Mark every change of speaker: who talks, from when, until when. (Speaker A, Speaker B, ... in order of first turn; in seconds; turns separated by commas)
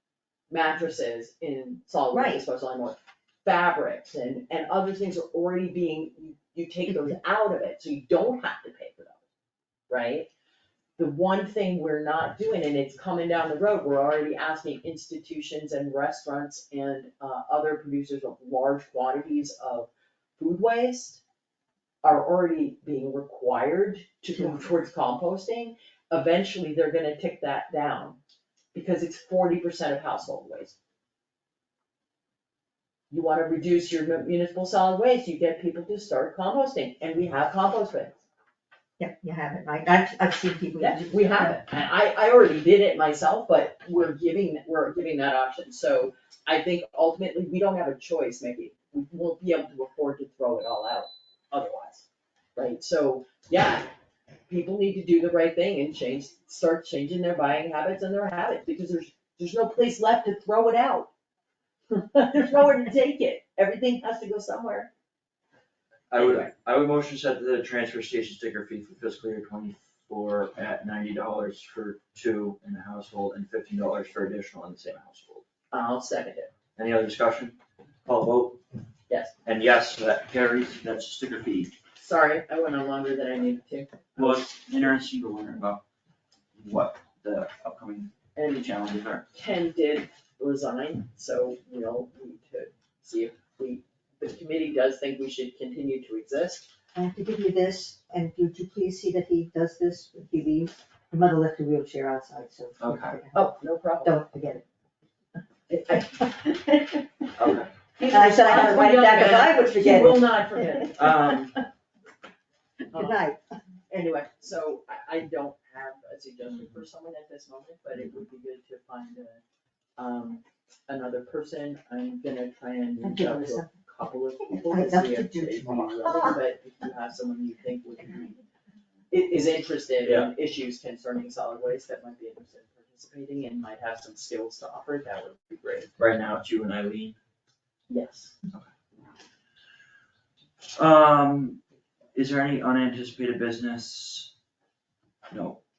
Speaker A: 0.5-9.2, Speaker B: 2.1-2.4, Speaker A: 9.9-10.3, Speaker A: 11.0-21.2, Speaker A: 22.0-28.2, Speaker B: 24.4-24.6, Speaker A: 28.7-30.8, Speaker A: 33.1-38.2, Speaker B: 39.0-41.6, Speaker A: 40.8-53.9, Speaker A: 54.5-61.1, Speaker A: 61.9-64.9, Speaker C: 66.1-75.4, Speaker A: 66.2-66.5, Speaker A: 75.7-76.5, Speaker C: 76.8-78.6, Speaker C: 79.4-81.7, Speaker A: 82.0-84.8, Speaker C: 84.2-85.8, Speaker C: 86.5-89.2, Speaker A: 89.3-96.7, Speaker B: 96.9-104.6, Speaker C: 102.8-103.2, Speaker A: 103.3-104.2, Speaker A: 105.7-106.0, Speaker B: 105.8-107.3, Speaker C: 107.4-107.7, Speaker A: 107.4-111.5, Speaker B: 108.0-110.9, Speaker C: 111.0-111.6, Speaker A: 112.9-113.2, Speaker B: 112.9-113.4, Speaker A: 113.9-119.4, Speaker A: 120.0-128.4, Speaker B: 123.0-123.7, Speaker B: 124.5-126.4, Speaker A: 129.1-135.9, Speaker C: 130.0-130.3, Speaker C: 136.0-137.2, Speaker A: 137.9-138.3, Speaker C: 140.8-141.6, Speaker C: 142.2-144.3, Speaker C: 145.3-145.6